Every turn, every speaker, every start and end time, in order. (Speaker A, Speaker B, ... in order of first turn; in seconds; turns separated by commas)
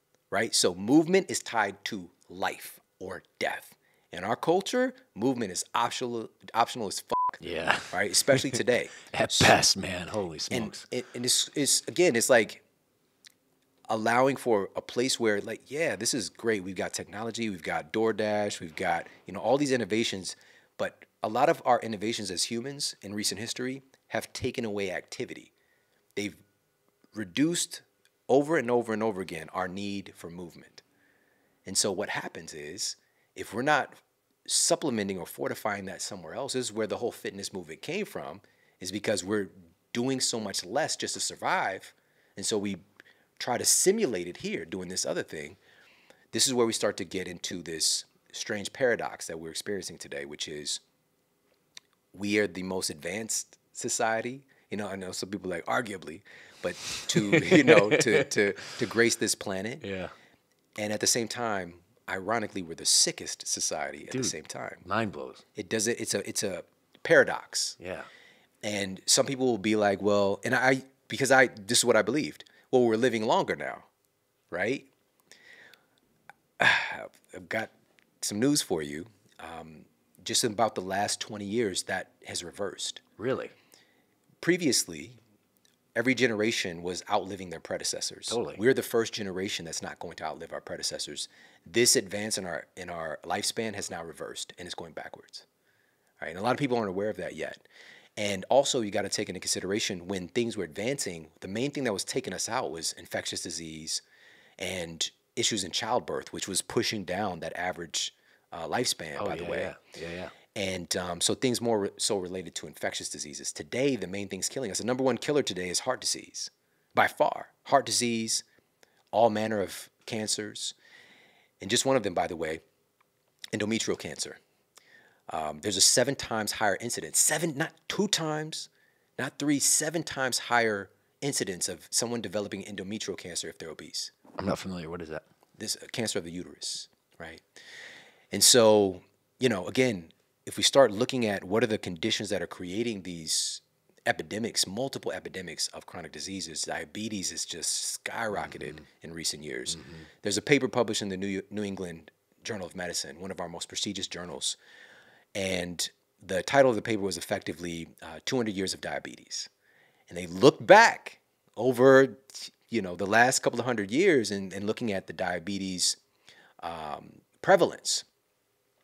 Speaker A: 0.3-9.6, Speaker B: 7.4-8.6, Speaker B: 9.1-10.8, Speaker A: 10.5-12.6, Speaker A: 13.9-25.5, Speaker A: 27.1-30.8, Speaker A: 31.6-42.8, Speaker A: 43.4-45.6, Speaker A: 46.3-50.8, Speaker A: 52.1-59.8, Speaker B: 57.1-58.3, Speaker B: 59.8-60.1, Speaker A: 60.8-64.8, Speaker B: 64.1-65.4, Speaker A: 65.5-67.8, Speaker B: 67.8-68.1, Speaker A: 68.6-73.9, Speaker A: 74.5-74.9, Speaker A: 76.6-83.0, Speaker B: 83.2-83.5, Speaker A: 84.4-85.2, Speaker A: 86.0-95.5, Speaker B: 88.3-88.6, Speaker A: 96.2-97.6, Speaker A: 98.2-104.0, Speaker A: 104.6-109.8, Speaker B: 109.2-110.3, Speaker A: 110.5-118.4, Speaker A: 119.1-120.7, Speaker A: 121.6-122.6, Speaker A: 123.5-124.4, Speaker A: 125.3-134.1, Speaker B: 134.4-135.2, Speaker A: 135.6-137.4, Speaker A: 138.3-154.6, Speaker B: 148.4-148.8, Speaker B: 149.7-150.1, Speaker A: 155.3-159.5, Speaker A: 160.1-166.0, Speaker A: 166.6-168.1